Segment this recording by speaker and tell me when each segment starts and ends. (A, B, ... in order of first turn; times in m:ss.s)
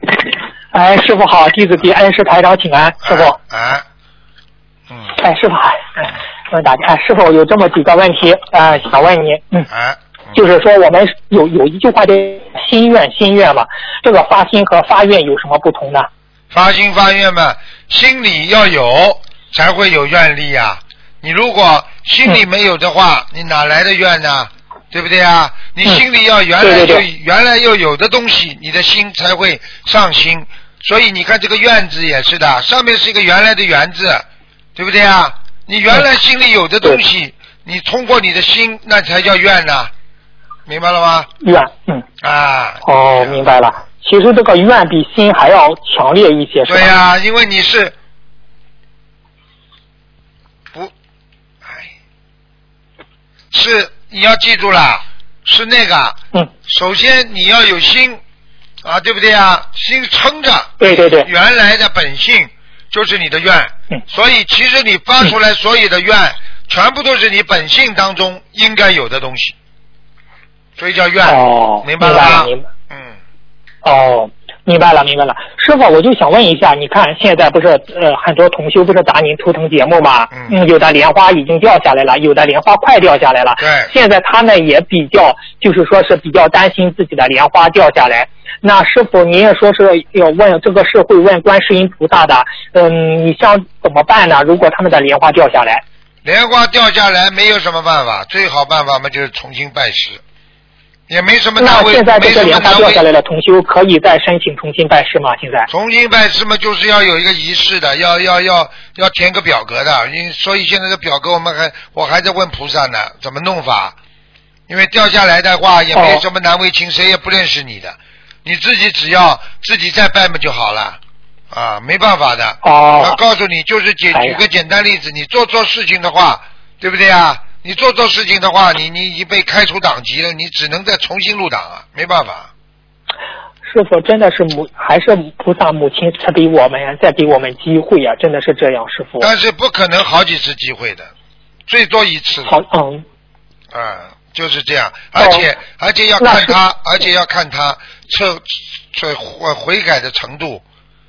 0:00.7-0:03.4 A
0:03.0-0:03.8 B
0:05.1-0:09.7 A
0:09.7-0:10.4 B
0:10.3-0:16.1 A
0:16.5-0:39.9 B
0:26.6-0:27.1 A
0:40.7-0:41.3 B
0:41.4-0:42.0 A
0:42.2-0:43.4 B
0:42.8-0:46.9 A
0:46.7-0:48.0 B
0:51.6-0:51.9 B
0:53.5-0:58.2 B
0:58.8-1:09.6 B
1:00.8-1:01.3 A
1:10.8-1:13.2 B
1:11.2-1:12.7 A
1:13.8-1:35.8 A
1:23.6-1:23.9 B
1:36.2-1:40.2 B
1:41.1-1:43.1 B
1:41.6-1:45.7 A
1:45.7-1:54.0 B
1:54.7-2:01.0 B
1:55.9-1:56.2 A
2:01.5-2:12.5 B
2:02.6-2:03.2 A
2:04.1-2:04.4 A
2:13.6-2:19.3 A
2:19.2-2:21.1 B
2:21.7-2:22.6 B
2:22.4-2:23.0 A
2:23.7-2:30.6 B
2:25.2-2:25.5 A
2:26.2-2:26.6 A